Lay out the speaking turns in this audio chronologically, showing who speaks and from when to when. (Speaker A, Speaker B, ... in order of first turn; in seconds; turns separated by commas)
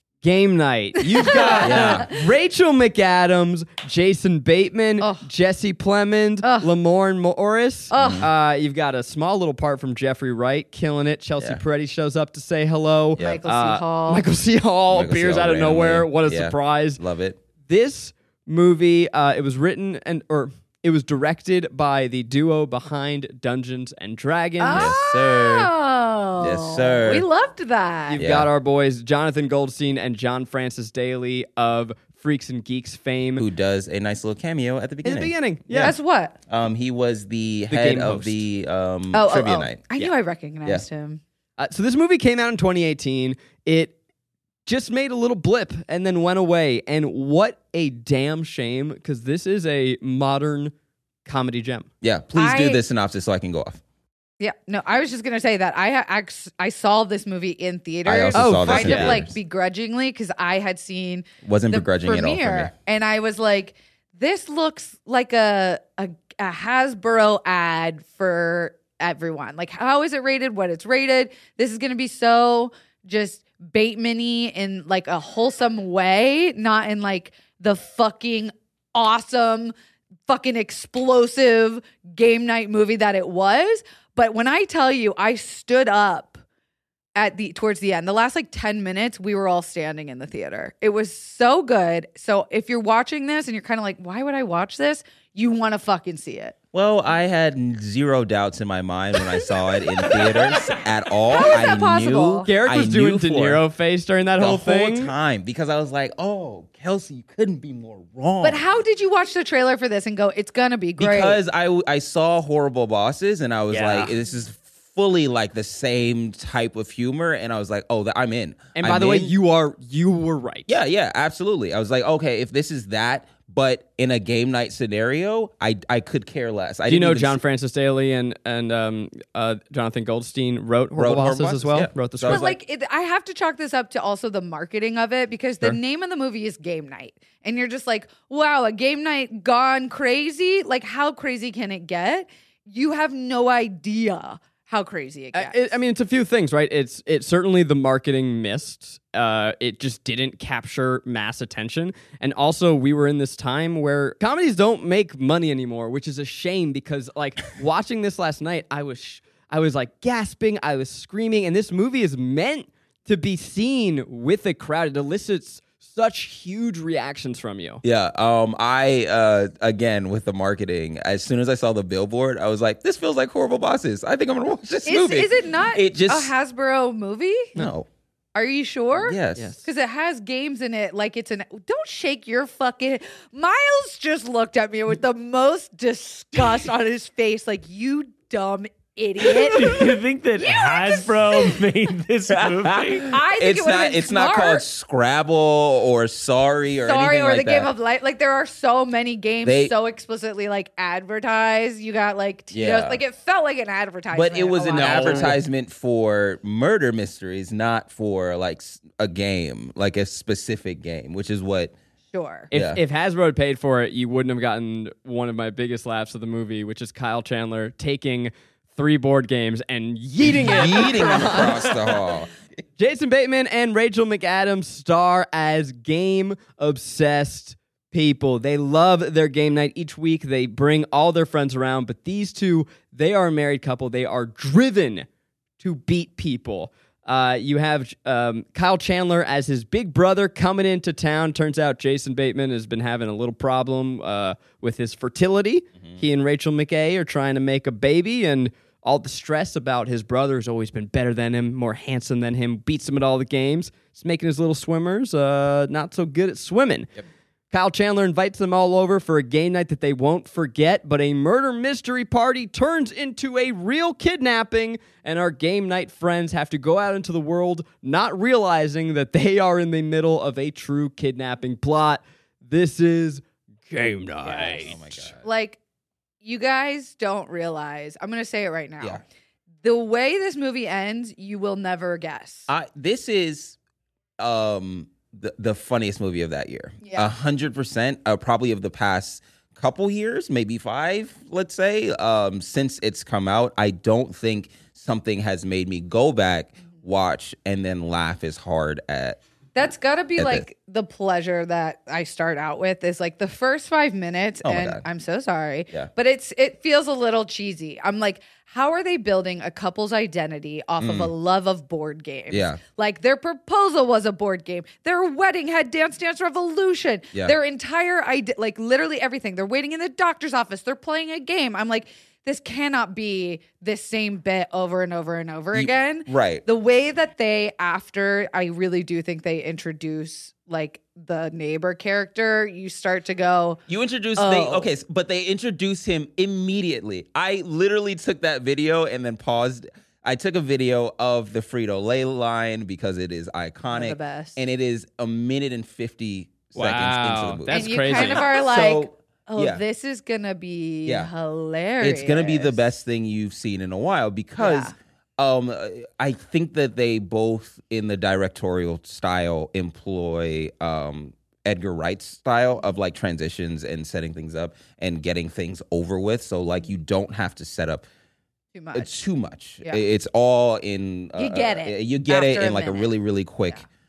Speaker A: 0.2-17.0, Speaker B: 1.0-2.1, Speaker C: 1.4-2.1, Speaker B: 5.0-5.2, Speaker B: 6.4-6.7, Speaker B: 7.9-8.3, Speaker C: 7.9-8.3, Speaker B: 13.2-14.2, Speaker C: 14.9-17.4, Speaker A: 17.7-24.9, Speaker B: 24.6-28.2, Speaker C: 24.7-25.7, Speaker C: 26.4-27.2, Speaker A: 28.1-33.5, Speaker C: 28.1-28.5, Speaker C: 33.4-36.0, Speaker A: 35.0-35.9, Speaker B: 35.8-36.4, Speaker C: 36.5-39.9, Speaker A: 37.7-38.4, Speaker B: 39.1-41.2, Speaker A: 41.6-43.9, Speaker A: 44.6-50.7, Speaker A: 51.2-51.9, Speaker C: 52.0-53.8, Speaker B: 52.3-52.8, Speaker B: 54.4-79.7, Speaker C: 58.0-59.3, Speaker A: 58.3-59.2, Speaker C: 61.4-62.7, Speaker B: 80.3-86.4, Speaker B: 87.1-96.5, Speaker C: 96.7-103.6, Speaker B: 100.0-100.6, Speaker B: 101.3-102.5, Speaker A: 102.5-105.1, Speaker C: 104.4-108.6, Speaker B: 108.4-111.4, Speaker C: 111.0-119.3, Speaker A: 113.7-114.1, Speaker A: 118.7-120.7, Speaker C: 120.7-127.4, Speaker A: 126.9-132.6, Speaker C: 130.9-132.4, Speaker B: 132.3-145.7, Speaker A: 145.3-167.8, Speaker C: 167.8-176.3, Speaker B: 174.8-177.5, Speaker C: 177.6-177.9, Speaker B: 178.3-191.9, Speaker C: 178.9-179.5, Speaker A: 179.3-179.7, Speaker D: 189.2-193.2, Speaker C: 192.3-197.7, Speaker B: 193.0-194.6, Speaker B: 196.8-205.4, Speaker C: 199.4-199.7, Speaker C: 202.5-203.0, Speaker C: 204.1-211.7, Speaker A: 204.7-205.4, Speaker B: 212.1-212.5, Speaker A: 212.5-221.9, Speaker C: 212.5-212.8, Speaker C: 220.3-222.3, Speaker B: 220.7-221.5, Speaker A: 222.8-235.1, Speaker A: 235.6-256.9, Speaker A: 257.5-275.1, Speaker B: 274.2-275.6, Speaker C: 274.6-275.2, Speaker B: 276.2-279.0, Speaker B: 279.6-282.5, Speaker C: 282.5-283.6, Speaker C: 284.2-299.2, Speaker B: 286.8-287.1, Speaker B: 299.5-333.6, Speaker C: 300.2-300.4, Speaker C: 304.4-304.8, Speaker C: 310.8-311.1, Speaker C: 312.3-312.6, Speaker C: 325.5-326.4, Speaker C: 333.7-349.6, Speaker B: 334.2-334.7, Speaker B: 343.7-344.4, Speaker A: 346.5-348.2, Speaker B: 347.5-352.6, Speaker C: 350.8-351.1, Speaker C: 351.8-367.9, Speaker B: 354.4-354.7, Speaker B: 368.5-368.9, Speaker C: 368.7-373.6, Speaker B: 371.2-372.9